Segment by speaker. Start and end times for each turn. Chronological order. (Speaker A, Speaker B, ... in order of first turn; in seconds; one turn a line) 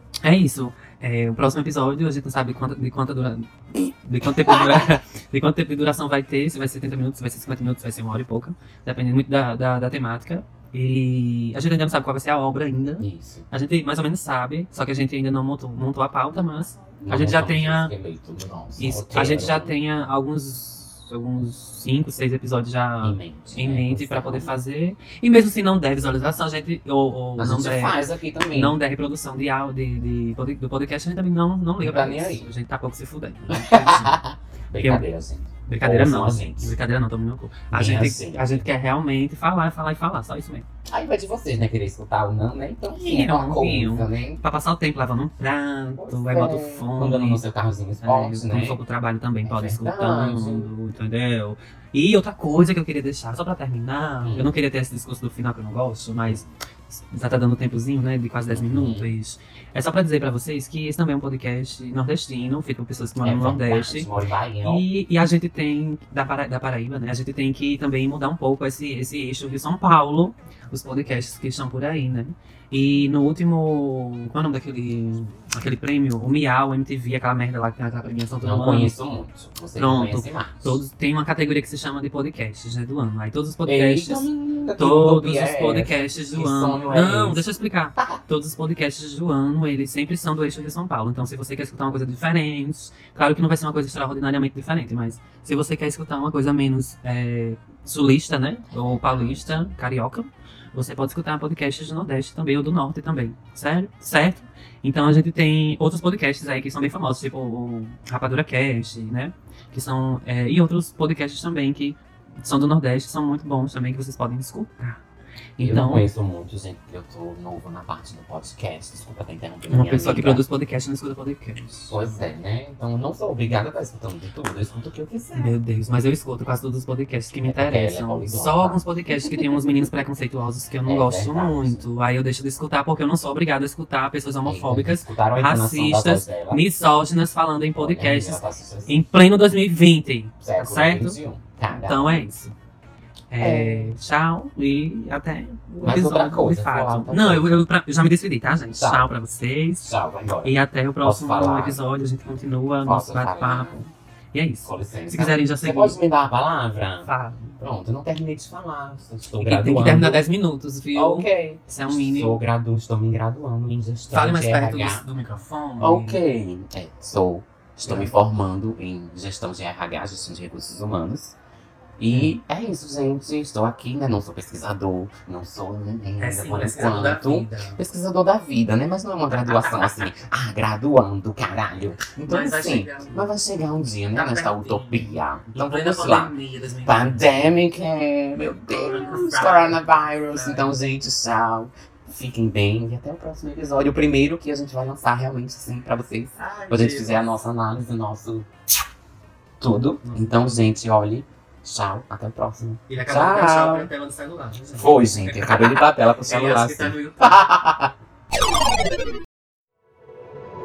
Speaker A: 0.2-17.9
Speaker B: 4.2-4.9
Speaker B: 13.0-13.5
Speaker B: 16.4-19.7
Speaker A: 18.8-34.2
Speaker B: 23.0-24.6
Speaker B: 27.4-28.8
Speaker B: 31.8-32.5
Speaker B: 33.5-36.8
Speaker A: 34.8-35.0
Speaker A: 35.6-40.6
Speaker B: 37.7-38.7
Speaker B: 40.9-44.4
Speaker A: 43.0-47.4
Speaker B: 46.0-48.8
Speaker A: 48.0-64.1
Speaker B: 49.4-50.7
Speaker B: 54.2-54.5
Speaker B: 56.2-56.5
Speaker B: 58.5-59.1
Speaker B: 63.2-64.8
Speaker A: 64.6-78.9
Speaker B: 78.4-80.8
Speaker A: 79.8-115.0
Speaker B: 83.7-88.2
Speaker B: 98.7-99.7
Speaker A: 115.6-116.1
Speaker B: 115.6-120.4
Speaker A: 119.7-122.3
Speaker B: 121.9-125.5
Speaker A: 125.3-141.2
Speaker B: 127.3-129.5
Speaker B: 130.8-131.8
Speaker B: 134.4-136.6
Speaker B: 137.8-139.0
Speaker B: 140.4-142.4
Speaker A: 141.7-142.5
Speaker A: 143.3-149.9
Speaker B: 143.4-143.9
Speaker B: 145.8-147.7
Speaker B: 148.7-149.1
Speaker B: 149.8-151.8
Speaker A: 150.4-156.0
Speaker B: 152.8-153.9
Speaker B: 154.6-160.2
Speaker A: 157.0-157.6
Speaker A: 159.4-162.4
Speaker B: 160.9-165.0
Speaker A: 164.1-166.2
Speaker B: 165.8-171.4
Speaker A: 167.8-168.1
Speaker B: 172.0-198.5
Speaker A: 172.1-172.4
Speaker A: 176.2-177.8
Speaker A: 179.4-180.2
Speaker A: 182.1-183.3
Speaker A: 184.1-187.6
Speaker A: 188.7-190.8
Speaker A: 196.3-197.2
Speaker B: 199.6-203.9
Speaker A: 200.0-200.6
Speaker A: 202.9-207.6
Speaker B: 204.7-207.9